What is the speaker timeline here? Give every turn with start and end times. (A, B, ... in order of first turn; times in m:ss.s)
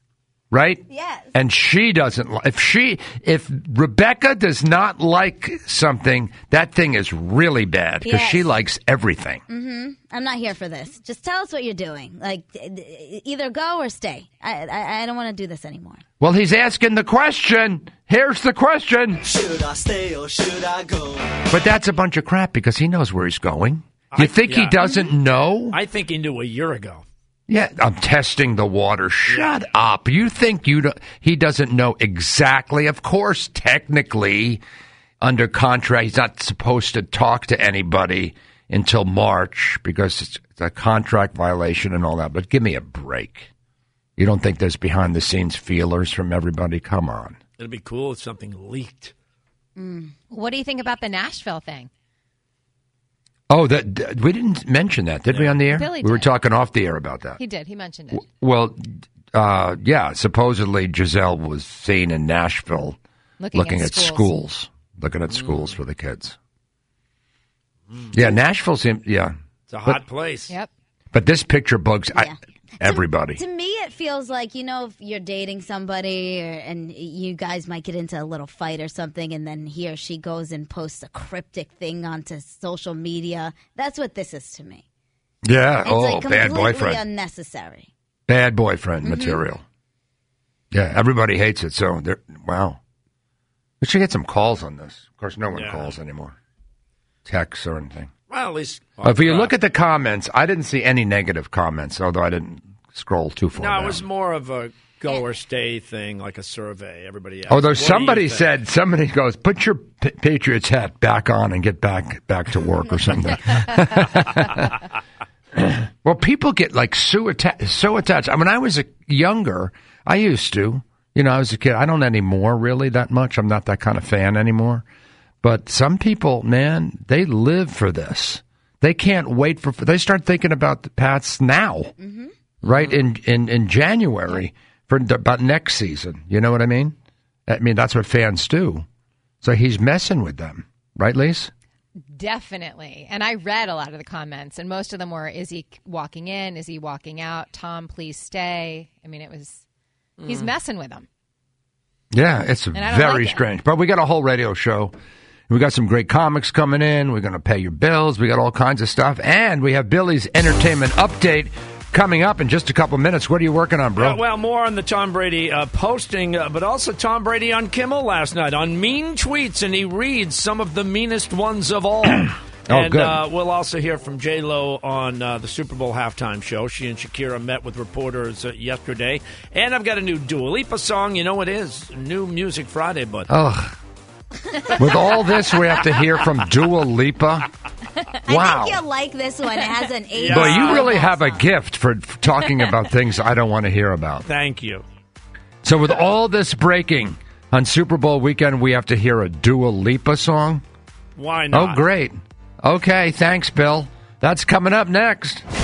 0:00.5-0:09.4 A
0:00.9-0:01.3 B
0:08.0-0:08.5 B
0:09.5-0:16.0 B
0:16.2-0:19.2 A
0:19.3-0:21.4 C
0:21.5-0:25.8 A
0:24.1-0:25.1 D
0:25.7-0:27.0 D
0:27.5-0:34.6 A
0:29.3-0:29.5 D
0:35.2-0:43.5 A
0:44.2-0:47.4 A
0:47.6-0:49.1 D
0:49.8-0:50.1 B
0:50.3-0:51.9 E
0:53.5-0:57.4 A
0:55.3-0:55.7 D
0:55.7-0:56.3 E
0:57.4-0:58.3 E
0:58.1-1:03.0 A
1:03.4-1:04.3 E
1:03.6-1:06.4 A
1:08.1-1:09.3 A
1:09.7-1:10.6 D
1:11.1-1:13.4 A
1:12.1-1:24.8 B
1:25.4-1:27.1 A
1:25.8-1:27.9 B
1:28.3-1:29.6 A
1:29.0-1:29.4 B
1:30.7-1:32.8 A
1:33.8-1:36.4 A
1:35.5-1:36.0 D
1:37.2-1:38.1 A
1:38.3-1:39.6 D
1:39.0-1:44.0 A
1:43.6-1:48.6 D
1:47.5-1:54.7 A
1:55.6-2:04.8 A
2:05.4-2:11.9 A
2:12.0-2:12.3 B
2:12.6-2:16.9 A
2:12.6-2:13.0 D
2:17.5-2:18.8 A
2:19.4-2:21.5 A
2:22.1-2:29.6 E
2:30.2-2:30.5 D
2:30.2-2:31.1 E
2:32.1-2:34.9 A
2:32.7-2:33.4 E
2:35.5-2:44.2 A
2:44.0-3:03.3 D
2:52.7-2:53.2 A
3:03.3-3:03.8 A
3:04.7-3:07.5 A
3:08.2-3:11.5 B
3:08.3-3:08.8 A
3:10.1-3:10.9 D
3:10.3-3:14.3 A
3:14.2-3:14.8 D
3:15.6-3:20.6 A
3:21.2-3:21.8 D
3:21.5-3:25.4 A